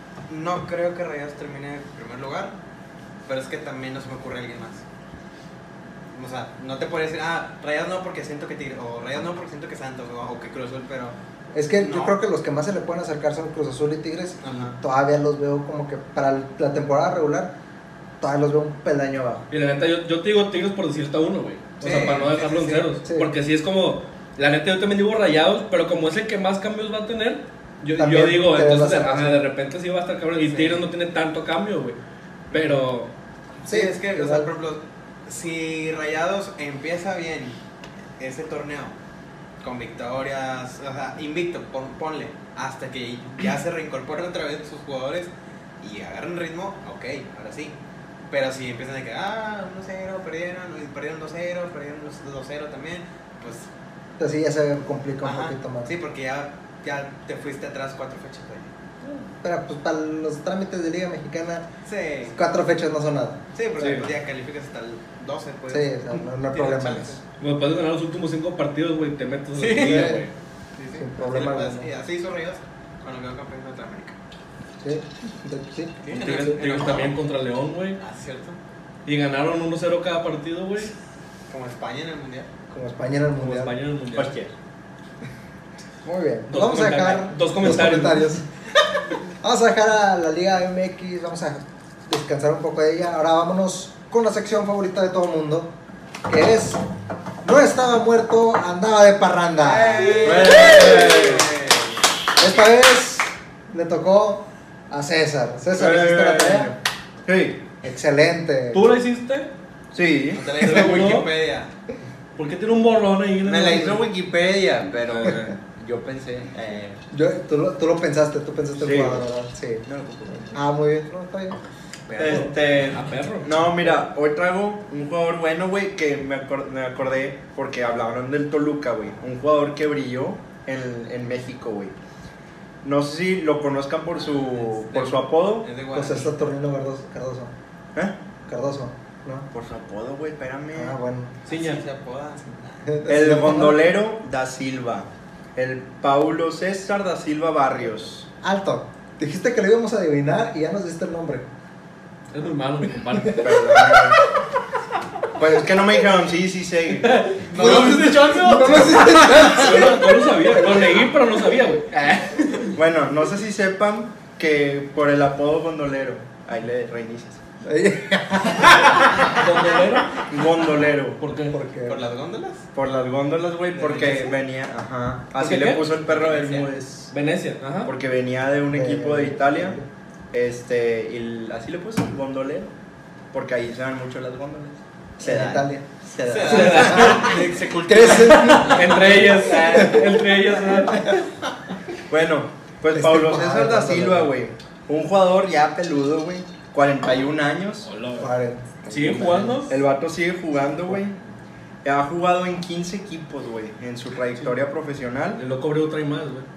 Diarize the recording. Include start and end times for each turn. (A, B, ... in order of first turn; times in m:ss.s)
0:00.3-0:02.6 A
0:03.2-0:04.8 A
0:06.1-0:11.2 A
0:11.5-0:17.5 B
0:11.8-0:12.2 A
0:14.4-0:14.8 A
0:18.2-0:19.4 B
0:19.5-0:32.0 C
0:21.8-0:22.8 A
0:22.3-0:23.3 B
0:28.0-0:29.4 B
0:30.4-0:30.8 A
0:32.5-0:33.1 C
0:32.5-0:32.8 B
0:33.6-0:37.6 A
0:33.6-0:34.5 B
0:38.2-0:39.0 A
0:39.6-0:47.8 A
0:48.3-0:53.7 A
0:54.2-0:55.9 B
0:55.2-0:58.7 A
0:59.4-1:01.7 B
1:01.8-1:02.4 A
1:02.3-1:03.4 B
1:03.5-1:07.2 A
1:03.8-1:04.1 C
1:05.7-1:07.2 B
1:07.4-1:10.3 C
1:09.5-1:10.2 A
1:09.8-1:10.2 B
1:10.8-1:14.2 A
1:10.9-1:11.9 B
1:14.8-1:16.0 B
1:16.0-1:17.2 A
1:16.1-1:18.0 C
1:18.0-1:18.6 A
1:19.0-1:20.9 C
1:21.5-1:22.5 A
1:22.7-1:23.7 B
1:23.4-1:24.3 C
1:24.1-1:24.5 D
1:26.0-1:28.4 B
1:26.5-1:28.3 C
1:29.4-1:35.7 B
1:36.3-1:36.8 B
1:37.4-1:41.1 B
1:39.6-1:42.0 A
1:40.1-1:41.5 D
1:42.4-1:46.8 B
1:45.7-1:46.7 D
1:47.2-1:47.6 D
1:47.8-1:48.9 B
1:48.7-1:49.5 C
1:49.9-1:50.7 D
1:50.3-1:51.7 A
1:50.6-1:51.3 C
1:52.4-1:54.0 C
1:53.4-1:57.0 D
1:57.1-2:01.6 B
1:58.8-1:59.2 D
1:59.8-2:00.6 D
2:02.1-2:11.9 D
2:02.2-2:03.5 C
2:12.8-2:15.7 D
2:14.8-2:16.3 A
2:15.9-2:17.5 B
2:18.4-2:19.5 B
2:19.5-2:21.0 D
2:20.7-2:21.4 B
2:21.5-2:21.8 C
2:21.5-2:23.1 A
2:22.9-2:23.9 B
2:23.1-2:28.3 D
2:28.4-2:31.5 B
2:32.3-2:33.4 C
2:33.1-2:34.1 B
2:33.4-2:34.2 D
2:35.3-2:37.4 D
2:37.1-2:38.0 C
2:37.4-2:39.7 A
2:37.5-2:40.1 B
2:39.3-2:42.7 C
2:42.7-2:47.4 D
2:47.6-2:49.0 B
2:49.4-2:50.1 C
2:50.3-2:51.2 D
2:51.2-2:51.6 C
2:51.5-2:52.1 B
2:51.8-2:52.7 A
2:52.7-2:57.1 D
2:53.7-2:54.4 A
2:55.4-2:55.9 C
2:55.8-2:56.8 A
2:57.1-2:57.9 C
2:57.8-2:59.8 D
2:58.7-2:59.9 B
3:00.3-3:02.7 D
3:03.3-3:07.3 D
3:05.2-3:05.8 B
3:06.2-3:08.8 A
3:06.4-3:07.4 C
3:06.4-3:10.1 B
3:08.5-3:11.0 C
3:10.8-3:11.2 B
3:12.1-3:17.9 D
3:12.9-3:14.4 B
3:17.8-3:18.3 C
3:18.2-3:19.6 B
3:18.9-3:19.8 C
3:19.0-3:21.2 D
3:21.8-3:25.4 D
3:25.4-3:26.5 C